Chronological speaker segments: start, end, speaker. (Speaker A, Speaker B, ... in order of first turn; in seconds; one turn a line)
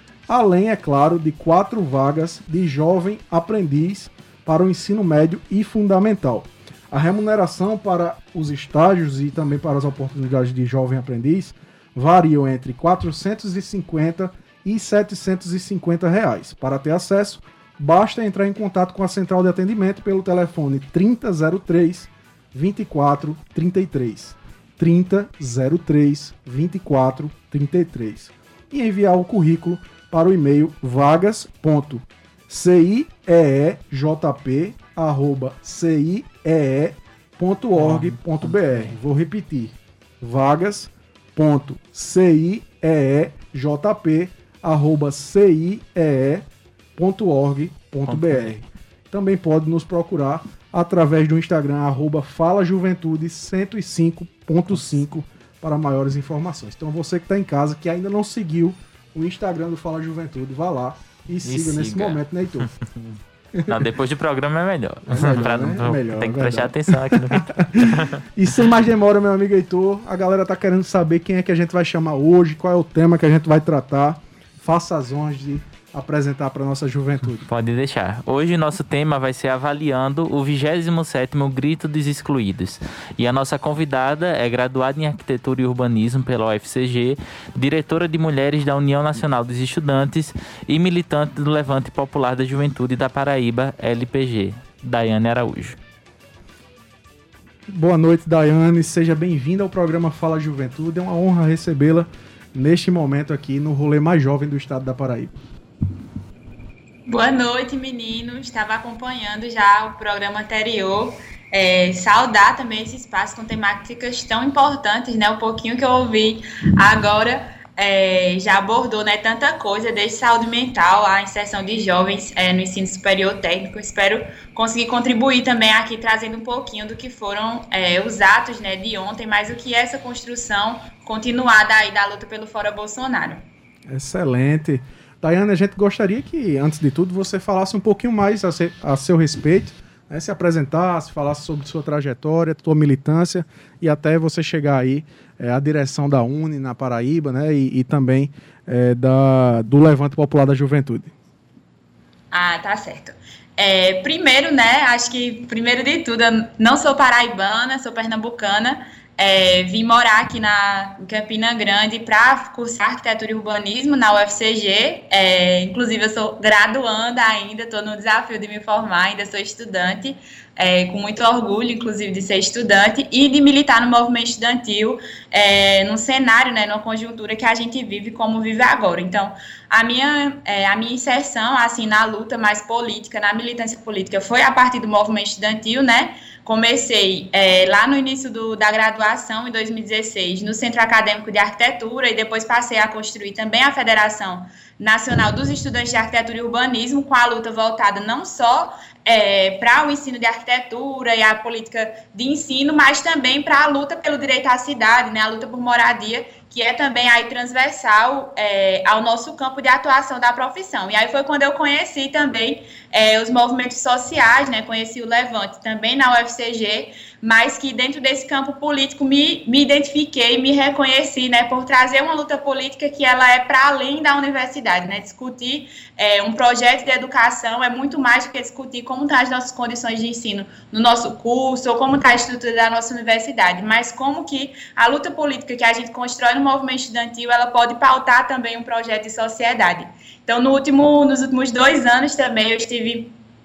Speaker A: 0.3-46.4
Speaker B: 37.8-38.9
Speaker A: 47.0-62.7
Speaker B: 48.1-48.4
Speaker B: 61.4-62.7
Speaker A: 63.5-63.8
Speaker B: 63.7-68.2
Speaker A: 65.1-77.5
Speaker B: 77.5-95.8
Speaker A: 97.7-105.3
Speaker C: 107.1-133.4
Speaker A: 133.9-151.1
Speaker C: 152.3-243.1